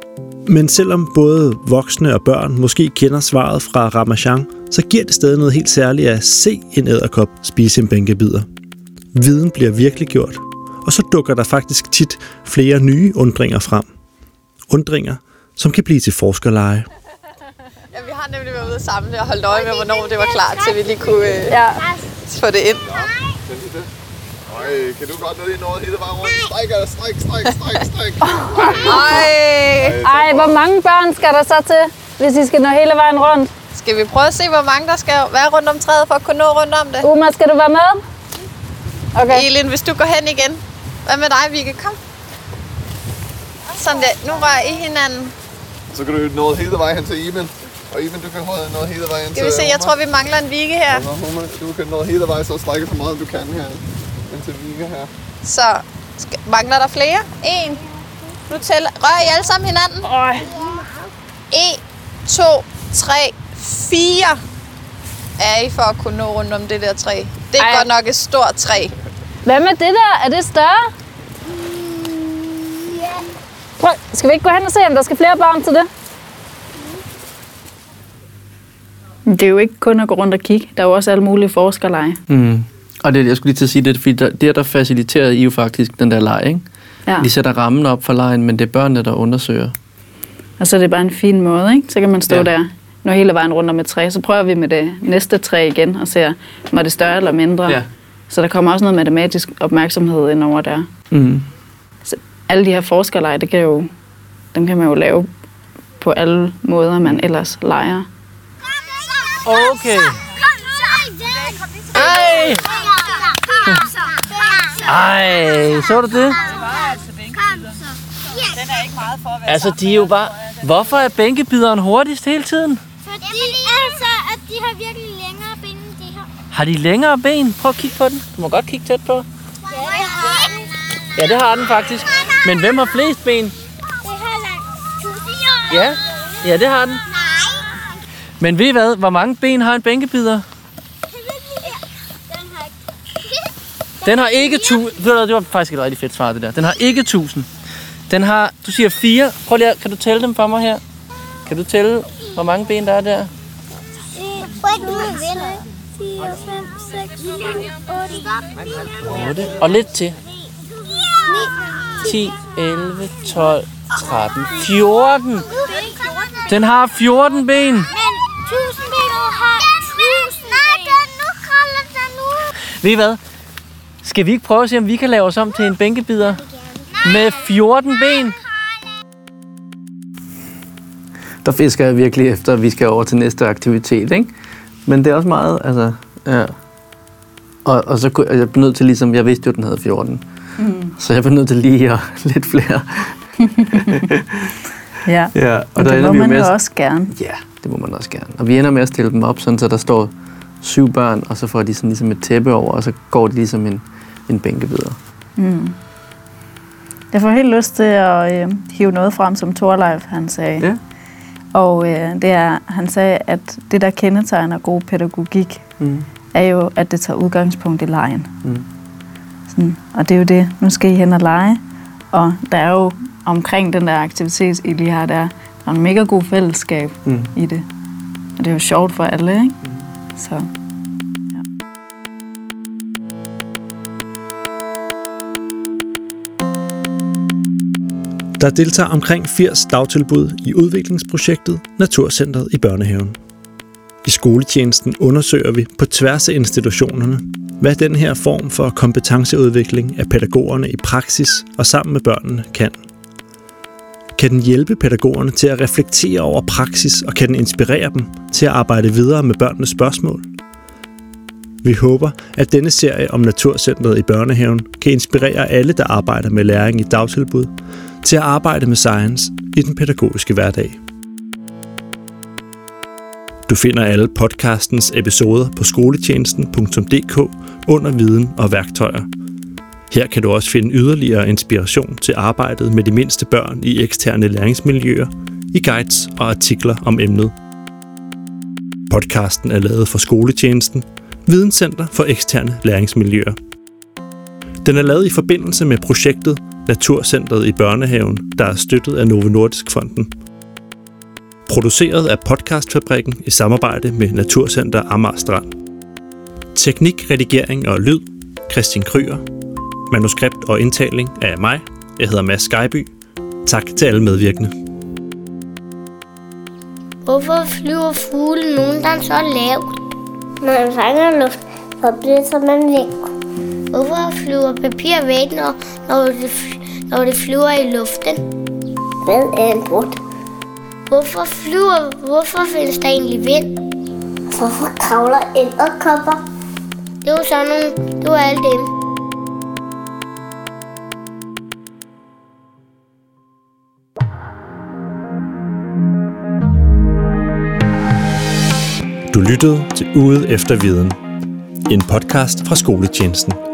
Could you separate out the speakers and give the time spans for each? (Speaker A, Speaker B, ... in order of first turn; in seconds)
Speaker A: 0.5-8.5, 9.1-13.9, 14.7-16.9, 238.4-243.2, 244.0-252.8, 254.2-260.2, 261.6-267.5, 268.0-270.8, 273.5-279.1, 279.9-287.3, 288.9-293.3, 294.6-300.1, 301.5-305.5, 306.5-309.2, 309.9-312.9, 313.4-314.5, 349.1-351.0, 351.7-353.4
Speaker B: 17.9-21.5, 22.2-22.8, 28.7-30.0, 33.7-37.1, 39.3-42.0, 43.7-45.3, 49.3-51.1, 55.4-57.8, 58.5-60.0, 61.5-64.4, 65.4-68.9, 111.9-112.6, 118.7-119.8
Speaker C: 19.5-22.1, 22.7-23.4, 26.2-26.5, 28.5-29.1, 60.4-61.1, 71.6-73.2, 109.0-109.5, 110.3-112.0, 112.6-115.0, 116.3-118.7, 123.0-124.9, 125.6-126.1, 129.7-130.6, 134.0-135.8, 137.2-137.8, 154.1-159.2, 161.1-162.2, 165.4-166.4, 167.9-172.5, 176.6-176.9, 317.1-319.8, 320.4-323.1, 323.7-328.2, 329.0-330.0, 330.9-333.5, 334.3-336.2, 337.0-338.7
Speaker D: 21.5-21.9, 28.2-29.2, 30.0-33.5, 60.0-60.5, 67.6-67.9, 69.5-70.8, 73.8-75.9, 79.3-82.2, 90.6-100.9, 102.0-103.9, 104.5-105.3, 106.0-108.1, 190.6-190.9, 193.5-193.9, 195.0-197.1, 205.4-205.8, 207.1-210.7, 211.5-215.6, 216.3-218.3, 219.5-221.6, 222.1-227.6, 228.4-229.6, 230.1-230.4
Speaker E: 22.8-23.9, 24.5-28.9, 29.8-30.6, 45.9-50.0, 50.9-55.1
Speaker F: 82.3-86.6, 87.2-89.7, 101.1-101.5, 109.4-110.3, 112.0-112.7, 114.8-116.4, 119.5-122.8, 126.5-129.3, 131.2-133.6, 135.7-137.0, 138.4-140.4, 144.0-147.5, 148.1-150.8, 151.4-153.3, 159.0-160.2, 162.0-165.5, 166.4-167.9, 172.7-173.2, 174.0-176.4, 177.0-178.4, 181.4-184.3, 184.8-186.5, 187.6-190.2, 191.0-193.2, 193.7-194.5, 195.3-196.5, 197.1-205.0, 215.8-216.1